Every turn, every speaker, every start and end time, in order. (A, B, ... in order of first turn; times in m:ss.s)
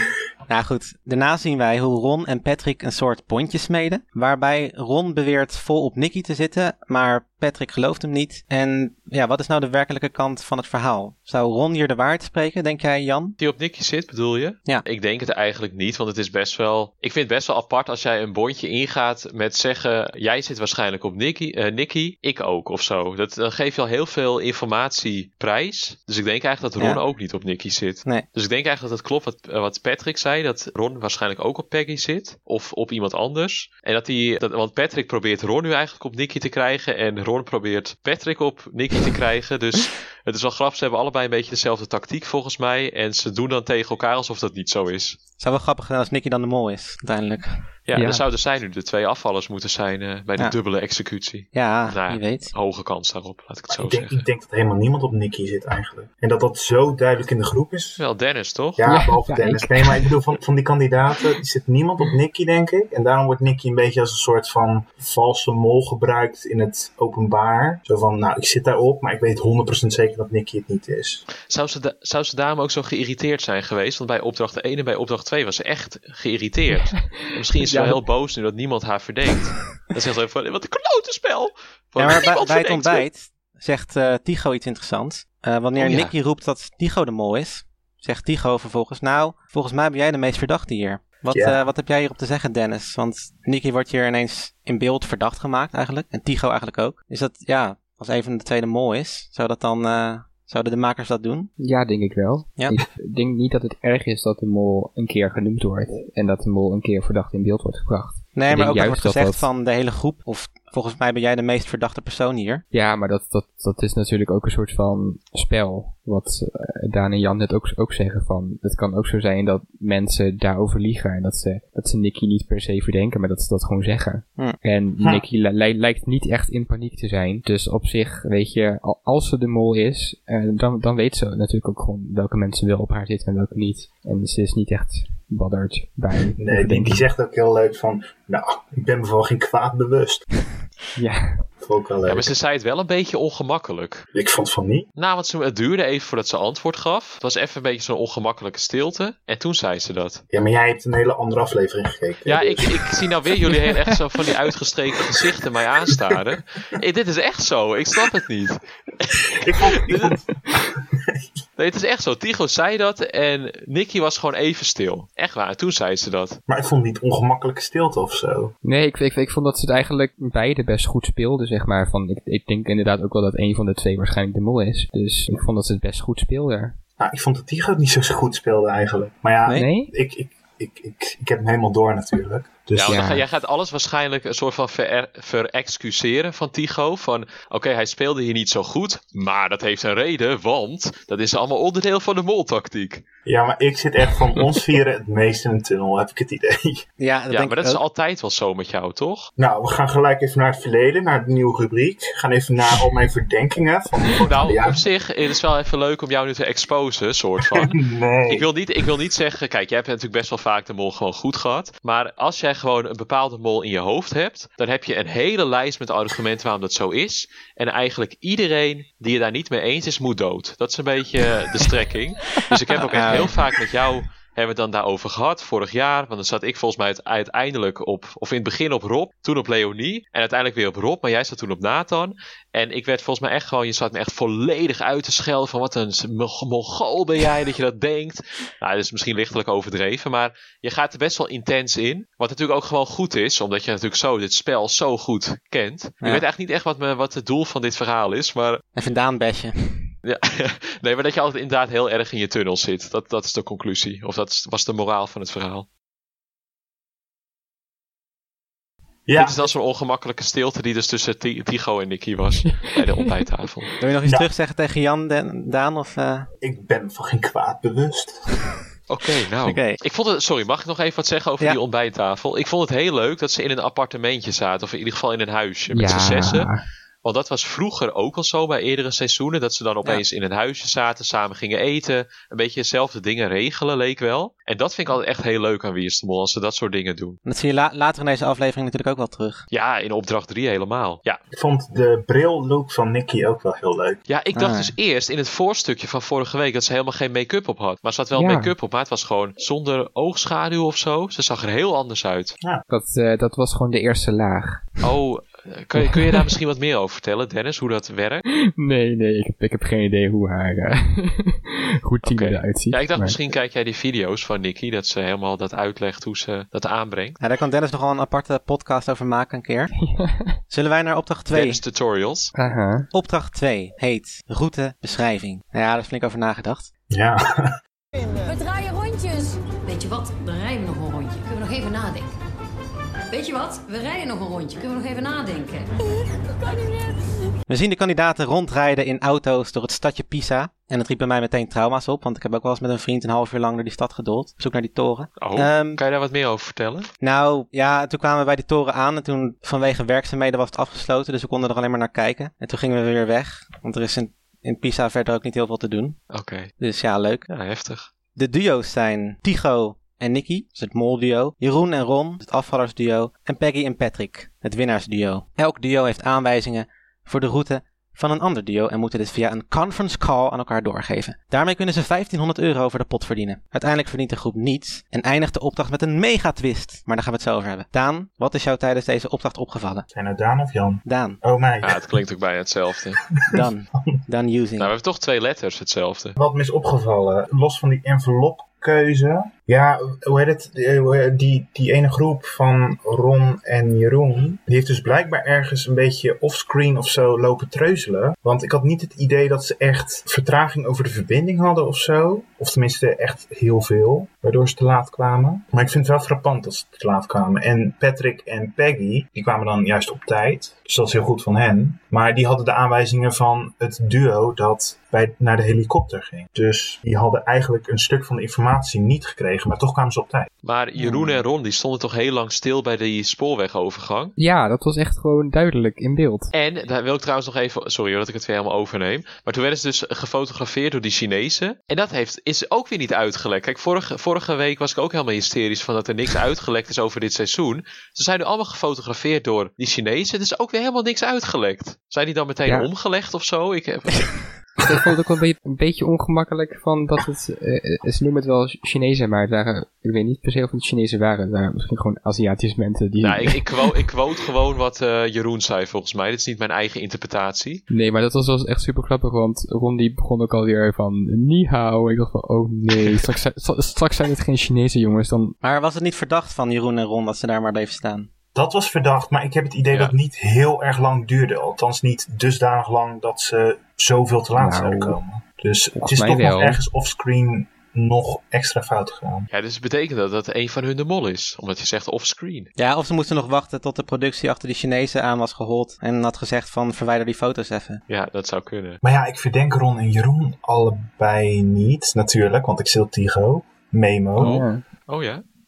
0:00.5-0:13.4 A
0:13.4-0:45.2 B
0:45.4-0:47.6 A
0:47.9-0:54.2 B
0:48.0-0:48.2 C
0:51.5-0:52.5 A
0:53.7-0:58.0 D
0:58.0-0:58.8 B
0:58.8-1:11.2 D
0:58.8-1:00.1 C
1:11.5-1:23.0 B
1:17.6-1:18.0 C
1:22.0-1:41.5 A
1:25.8-1:26.1 B
1:31.3-1:31.6 D
1:41.6-1:49.5 C
1:48.4-1:52.6 A
1:52.7-2:17.1 C
2:16.4-2:20.2 D
2:21.0-2:21.3 C
2:21.6-2:22.3 D
2:22.1-2:24.0 B
2:24.1-2:24.9 D
2:25.0-2:30.2 B
2:30.3-2:32.8 D
2:32.3-2:39.2 B
2:39.4-2:41.2 D
2:39.8-2:40.1 B
2:41.6-2:46.4 B
2:46.5-2:48.5 D
2:48.6-2:56.8 C
2:57.0-3:03.0 D
2:59.5-2:59.9 C
3:02.8-3:13.0 B
3:02.9-3:03.2 C
3:13.3-3:16.8 D
3:17.0-3:17.8 A
3:17.3-3:19.3 B
3:19.4-3:24.8 D
3:24.2-3:27.8 B
3:27.4-3:28.5 D
3:28.3-4:08.6 B
3:42.9-3:43.3 A
4:08.8-4:09.9 A
4:10.0-4:15.7 B
4:19.1-4:19.5 D
4:19.2-4:23.7 B
4:23.8-4:26.3 A
4:24.0-4:24.3 D
4:26.4-4:28.2 D
4:28.9-4:36.5 B
4:29.4-4:29.8 A
4:35.7-4:36.6 C
4:37.0-4:47.2 B
4:47.3-4:49.4 A
4:49.5-4:51.2 B
4:51.3-4:54.0 D
4:54.1-5:02.4 B
4:54.4-4:54.7 A
4:58.1-4:58.5 C
5:02.7-5:04.6 C
5:04.8-5:08.2 B
5:05.8-5:06.2 C
5:08.6-5:13.2 C
5:12.0-5:17.2 B
5:17.2-5:19.7 A
5:19.8-5:20.4 C
5:20.5-5:21.6 A
5:21.3-5:22.3 B
5:22.4-5:22.9 C
5:22.9-5:26.7 A
5:26.9-5:27.6 D
5:28.2-5:32.1 E
5:33.1-5:35.7 E
5:36.4-5:37.1 E
5:37.5-5:45.8 A
5:45.2-5:46.9 B
5:47.0-5:56.0 A
5:56.1-5:56.5 B
5:56.6-5:57.2 A
5:57.3-5:57.9 B
5:58.1-6:19.9 A
6:19.9-6:22.0 D
6:20.9-6:21.2 A
6:21.6-6:23.0 B
6:23.3-6:24.7 A
6:24.6-6:26.1 B
6:26.2-7:00.3 D
7:00.4-7:04.1 B
7:04.2-7:06.3 C
7:06.3-7:24.1 B
7:24.6-7:33.5 C
7:33.0-7:37.6 B
7:37.7-7:45.4 C
7:45.4-7:48.1 A
7:48.3-7:59.3 D
7:54.4-7:55.0 C
7:55.8-7:56.6 C
7:59.3-8:02.5 B
8:02.6-8:07.8 A
8:07.9-8:08.8 B
8:08.8-8:14.4 D
8:14.2-8:14.6 C
8:14.2-8:15.2 B